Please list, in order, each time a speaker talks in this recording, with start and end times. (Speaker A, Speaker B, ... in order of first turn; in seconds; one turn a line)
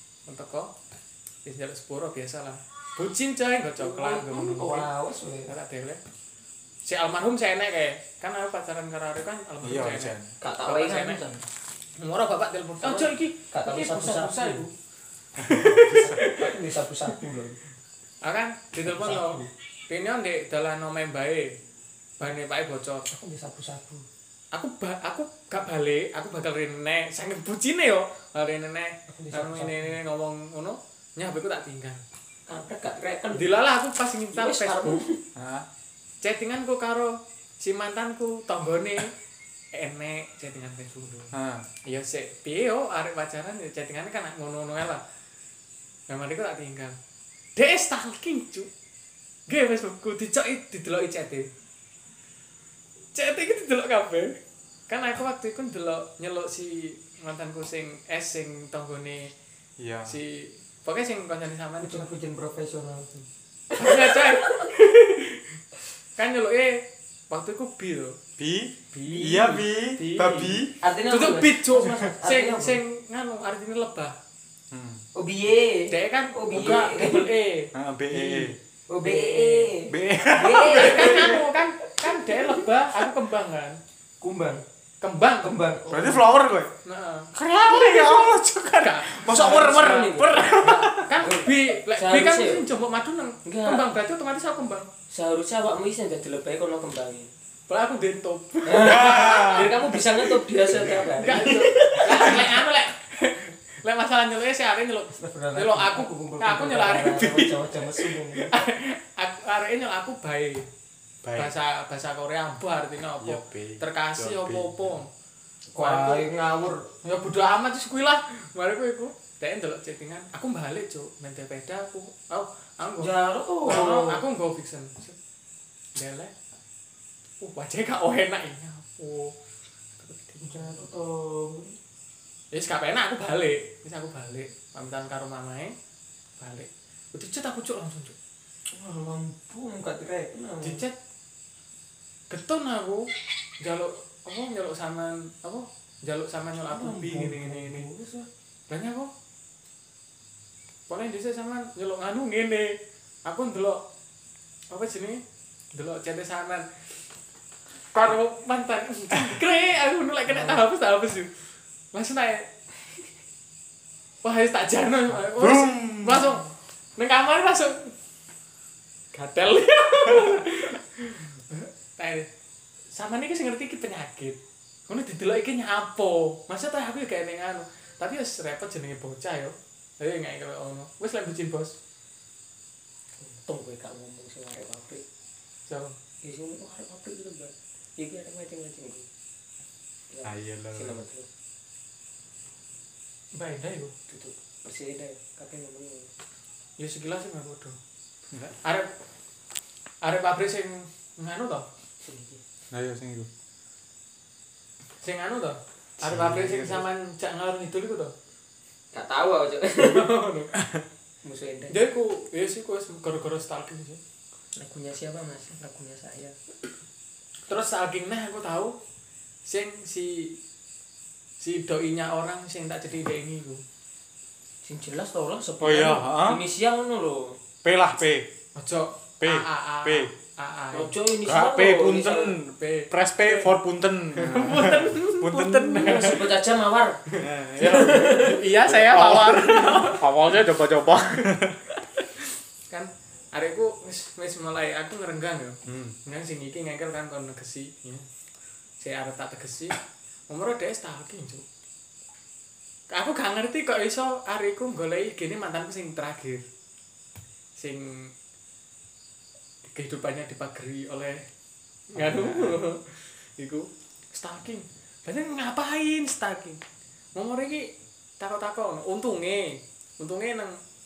Speaker A: 0.3-0.7
Speaker A: 1.4-4.9
Speaker B: 3.8-5.5
Speaker A: 5.5-6.0
Speaker A: 6.8-11.2
Speaker C: 9.6-10.3
Speaker B: 10.4-11.4
Speaker A: 12.0-14.7
Speaker B: 12.8-14.7
Speaker C: 15.4-16.2
Speaker A: 15.4-16.6
Speaker B: 15.8-17.6
Speaker A: 18.2-21.6
Speaker B: 18.9-19.5
Speaker A: 22.2-23.1
Speaker B: 23.1-24.0
Speaker A: 24.5-32.0
Speaker B: 29.1-30.0
Speaker B: 32.5-33.5
Speaker A: 33.3-35.0
Speaker B: 34.3-35.2
Speaker C: 35.4-35.6
Speaker A: 36.2-39.1
Speaker A: 39.7-41.3
Speaker C: 41.3-41.6
Speaker A: 41.8-45.0
Speaker A: 46.1-47.0
Speaker A: 47.5-48.7
Speaker A: 49.5-51.5
Speaker A: 53.1-54.4
Speaker A: 54.9-59.3
Speaker C: 59.8-60.1
Speaker A: 60.0-62.1
Speaker B: 61.8-63.1
Speaker B: 63.7-64.7
Speaker A: 63.7-65.6
Speaker A: 66.2-68.2
Speaker C: 68.4-70.7
Speaker A: 68.9-74.1
Speaker B: 70.8-72.8
Speaker C: 74.7-75.0
Speaker B: 75.1-77.3
Speaker A: 75.9-77.7
Speaker C: 77.7-78.6
Speaker B: 78.1-81.4
Speaker A: 79.0-79.7
Speaker C: 79.8-81.4
Speaker A: 80.7-83.8
Speaker B: 82.0-82.6
Speaker B: 84.2-84.6
Speaker A: 85.0-85.5
Speaker B: 85.4-86.2
Speaker C: 85.9-86.7
Speaker A: 86.8-87.3
Speaker C: 87.3-91.2
Speaker A: 88.8-94.9
Speaker B: 89.2-92.7
Speaker B: 93.4-94.0
Speaker B: 95.1-97.3
Speaker A: 97.7-99.7
Speaker B: 98.7-102.6
Speaker C: 98.8-99.7
Speaker A: 100.8-110.7
Speaker B: 105.1-108.6
Speaker C: 111.2-111.5
Speaker A: 111.3-115.1
Speaker C: 113.2-114.9
Speaker B: 115.7-116.9
Speaker A: 115.8-116.3
Speaker A: 117.0-123.1
Speaker B: 123.0-124.2
Speaker A: 123.6-125.2
Speaker A: 125.9-126.3
Speaker A: 127.4-129.3
Speaker A: 130.0-130.8
Speaker B: 130.4-131.8
Speaker A: 132.5-135.7
Speaker A: 136.4-138.2
Speaker B: 138.7-140.8
Speaker A: 140.6-140.9
Speaker A: 142.3-143.1
Speaker A: 143.6-147.9
Speaker B: 146.7-148.3
Speaker A: 148.7-149.1
Speaker A: 150.9-153.8
Speaker A: 154.7-155.2
Speaker A: 155.7-156.7
Speaker A: 157.9-161.3
Speaker B: 160.3-160.6
Speaker A: 161.9-162.5
Speaker A: 164.2-167.9
Speaker C: 165.3-166.3
Speaker A: 169.1-172.3
Speaker A: 172.9-181.7
Speaker B: 183.2-185.0
Speaker A: 185.7-185.9
Speaker B: 186.2-189.1
Speaker B: 190.1-191.2
Speaker C: 190.2-191.0
Speaker A: 193.3-193.9
Speaker B: 194.1-196.1
Speaker A: 196.8-197.8
Speaker A: 198.6-198.9
Speaker A: 200.0-201.7
Speaker B: 202.0-202.4
Speaker C: 202.7-203.3
Speaker A: 205.0-208.1
Speaker C: 206.0-206.8
Speaker B: 208.9-210.1
Speaker A: 209.8-210.8
Speaker B: 211.2-211.8
Speaker A: 211.7-214.0
Speaker B: 214.6-216.3
Speaker A: 217.5-218.8
Speaker A: 219.4-220.4
Speaker A: 221.4-223.6
Speaker B: 224.6-227.4
Speaker C: 225.6-226.4
Speaker C: 227.6-228.3
Speaker A: 228.6-230.9
Speaker C: 229.2-230.1
Speaker B: 230.7-232.3
Speaker C: 231.2-236.2
Speaker A: 232.6-233.5
Speaker A: 234.2-236.2
Speaker B: 235.8-237.0
Speaker A: 237.1-240.1
Speaker C: 237.2-241.6
Speaker B: 237.6-238.4
Speaker A: 242.7-248.1
Speaker C: 245.6-245.9
Speaker A: 248.8-251.4
Speaker A: 252.9-256.4
Speaker A: 257.6-258.1
Speaker A: 259.6-261.2
Speaker A: 261.9-266.6
Speaker C: 261.9-262.6
Speaker A: 267.1-270.6